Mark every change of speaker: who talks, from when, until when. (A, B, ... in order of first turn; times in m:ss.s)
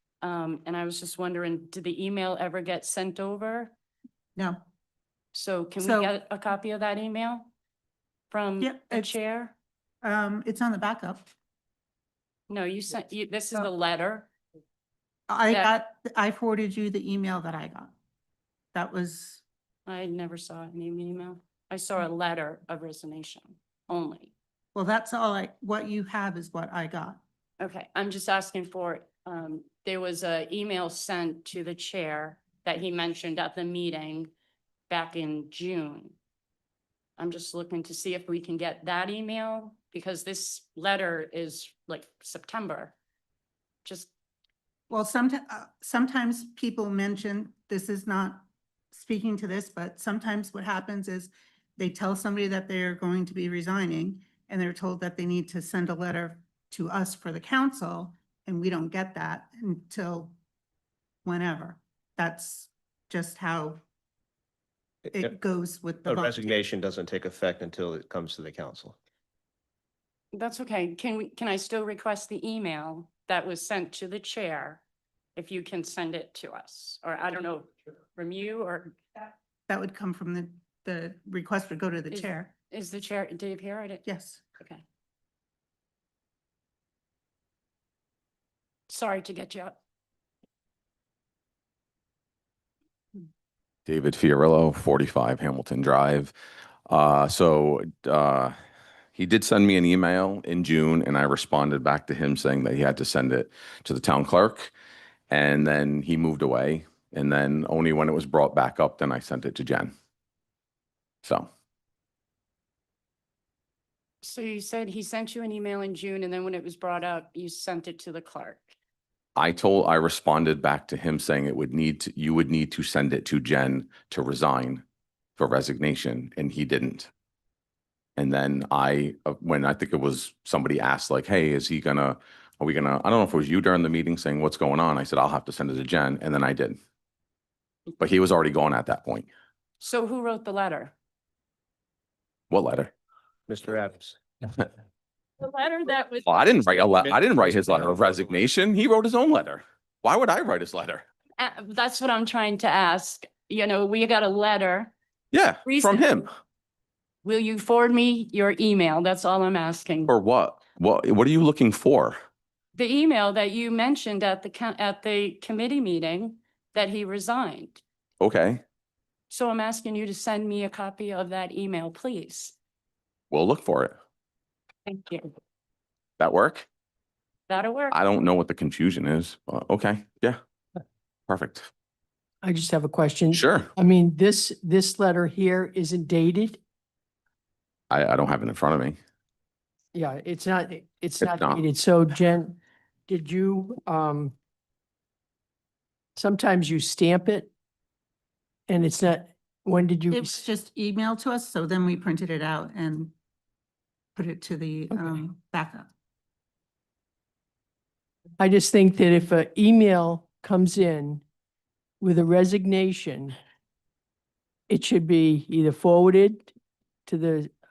0:00.2-0:03.7 A
0:04.4-0:04.6 B
0:05.3-0:07.5 A
0:05.8-0:06.1 B
0:08.3-0:09.5 A
0:08.6-0:09.1 B
0:10.0-0:11.3 B
0:12.5-0:14.3 A
0:15.3-0:17.9 B
0:18.7-0:19.4 B
0:19.9-0:24.3 A
0:24.7-0:27.2 B
0:27.6-0:34.3 A
0:34.9-0:36.2 A
0:37.2-0:42.9 A
0:43.8-0:44.1 A
0:44.9-1:00.3 B
1:01.2-1:03.8 B
1:05.1-1:06.4 B
1:06.0-1:08.9 C
1:10.3-1:14.8 A
1:15.4-1:19.0 A
1:19.7-1:22.5 B
1:22.1-1:24.0 A
1:24.0-1:24.4 B
1:24.6-1:24.8 A
1:28.9-1:29.8 A
1:33.9-1:36.3 D
1:36.9-1:38.5 D
1:39.1-1:44.7 D
1:45.3-1:49.9 D
1:54.2-1:58.8 A
1:59.4-2:04.8 D
2:05.4-2:07.1 D
2:08.2-2:16.8 D
2:18.0-2:19.3 D
2:19.8-2:20.9 A
2:22.5-2:22.9 D
2:23.5-2:24.2 C
2:25.4-2:26.9 A
2:26.2-2:31.0 D
2:27.5-2:28.0 C
2:31.4-2:34.9 A
2:35.3-2:36.3 D
2:35.6-2:36.2 A
2:37.2-2:40.1 A
2:40.1-2:42.2 D
2:42.7-2:47.8 A
2:48.2-2:48.6 D
2:49.3-2:52.5 A
2:53.3-2:54.0 D
2:54.8-2:55.3 A
2:56.2-2:56.6 D
2:57.5-2:58.0 A
2:57.9-3:00.4 D
3:01.3-3:01.7 D
3:02.4-3:06.6 E
3:03.3-3:03.7 D
3:07.9-3:09.0 D
3:09.9-3:12.6 E
3:11.2-3:11.6 D
3:13.1-3:14.3 E
3:16.2-3:17.5 E
3:18.7-3:20.4 E
3:20.1-3:23.1 B
3:24.2-3:25.9 B
3:28.4-3:31.2 E
3:32.0-3:33.4 E
3:34.7-3:36.5 E
3:37.1-3:37.5 E